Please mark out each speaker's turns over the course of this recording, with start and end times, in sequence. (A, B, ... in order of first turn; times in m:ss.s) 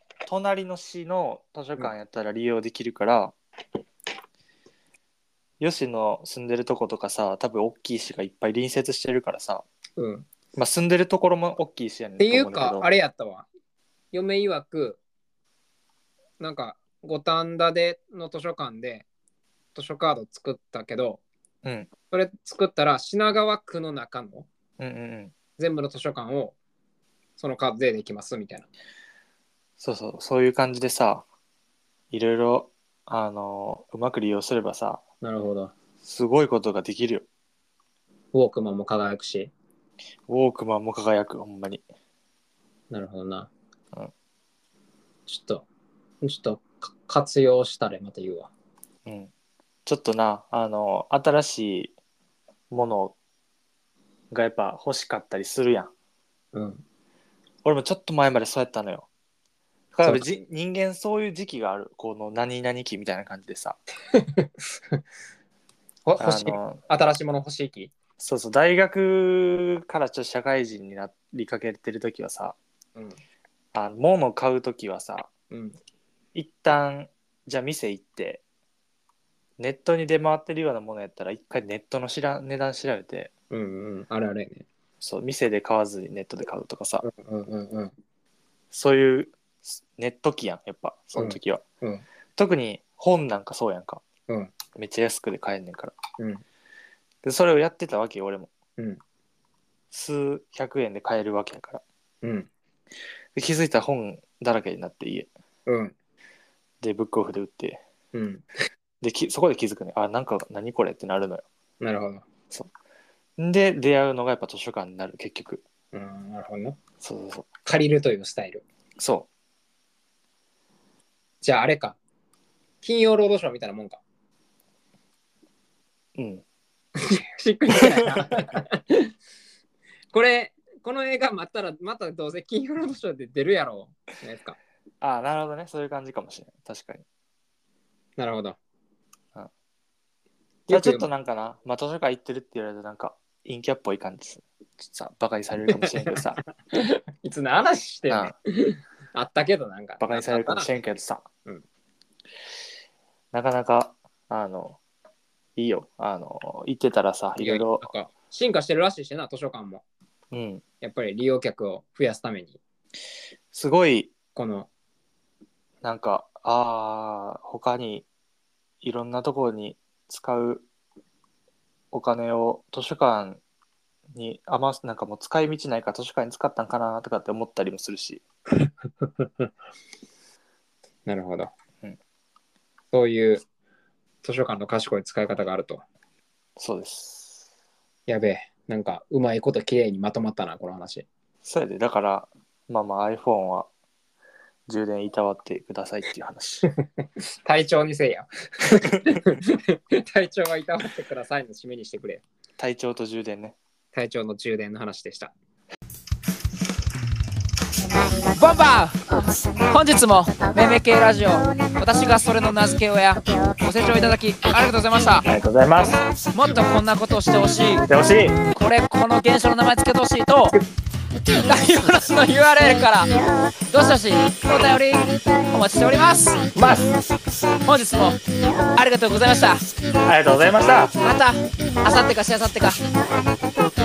0:00.2-0:03.3 A
0:05.6-0:09.6 A
0:10.0-0:10.3 B
0:10.5-0:12.9 A
0:12.2-0:13.5 B
0:14.1-0:15.0 B
0:16.4-0:19.0 B
0:19.7-0:21.2 B
0:21.6-0:21.9 A
0:22.1-0:24.5 B
0:24.8-0:25.3 A
0:25.6-0:26.6 B
0:27.4-0:28.7 B
0:29.8-0:31.2 A
0:32.1-0:35.0 A
0:35.2-0:35.7 B
0:36.0-0:37.2 A
0:38.3-0:39.5 B
0:40.3-0:41.8 A
0:42.9-0:43.5 B
0:45.3-0:45.6 B
0:46.2-0:48.5 B
0:49.0-0:49.3 A
0:49.8-0:51.9 A
0:52.7-0:53.1 A
0:54.3-0:55.9 A
0:56.5-0:56.8 B
0:57.6-0:59.1 A
0:59.9-1:03.8 A
1:00.0-1:00.3 B
1:04.2-1:05.0 B
1:06.0-1:07.9 B
1:06.2-1:06.8 A
1:08.2-1:12.6 A
1:13.7-1:15.3 A
1:15.5-1:15.8 B
1:16.3-1:18.4 A
1:19.6-1:23.3 A
1:23.5-1:24.6 B
1:25.0-1:27.0 A
1:27.0-1:27.9 B
1:28.7-1:31.6 A
1:31.1-1:32.0 B
1:32.4-1:34.0 A
1:34.7-1:35.9 A
1:36.2-1:36.4 B
1:37.2-1:38.5 A
1:39.9-1:41.8 A
1:42.2-1:42.5 B
1:43.3-1:45.3 A
1:45.6-1:45.9 B
1:46.8-1:47.8 A
1:48.1-1:48.4 B
1:49.0-1:51.4 A
1:51.8-1:52.2 B
1:53.4-1:55.6 A
1:55.9-1:56.8 B
1:57.0-1:57.5 A
1:57.6-1:58.6 B
1:59.0-1:59.3 A
2:01.4-2:02.0 B
2:02.8-2:04.0 B
2:06.2-2:06.4 A
2:07.0-2:09.1 B
2:07.9-2:08.2 A
2:10.1-2:14.6 B
2:15.0-2:17.0 A
2:18.2-2:18.6 B
2:20.7-2:21.1 B
2:20.7-2:26.4 A
2:25.7-2:26.2 B
2:26.7-2:30.7 B
2:30.0-2:31.3 A
2:33.3-2:34.8 A
2:35.6-2:37.9 A
2:37.4-2:39.8 B
2:40.3-2:40.6 A
2:40.8-2:42.6 B
2:43.5-2:44.1 A
2:44.3-2:44.7 B
2:45.8-2:48.0 A
2:48.8-2:50.6 A
2:51.9-2:53.4 A
2:54.1-2:58.2 A
2:58.6-2:59.5 B
3:01.0-3:01.5 B
3:02.9-3:03.4 B
3:04.2-3:05.8 B
3:06.6-3:07.4 A
3:08.1-3:11.0 B
3:11.4-3:13.7 A
3:14.7-3:16.6 A
3:17.4-3:22.2 B
3:22.6-3:23.6 A
3:23.9-3:25.3 B
3:28.3-3:35.3 C
3:35.2-3:36.0 A
3:36.3-3:37.9 C
3:37.8-3:38.4 A
3:38.5-3:40.6 C
3:41.4-3:43.1 C
3:43.7-3:46.5 C
3:46.6-3:46.8 A
3:47.6-3:49.7 C
3:50.0-3:51.0 A
3:51.0-3:52.8 C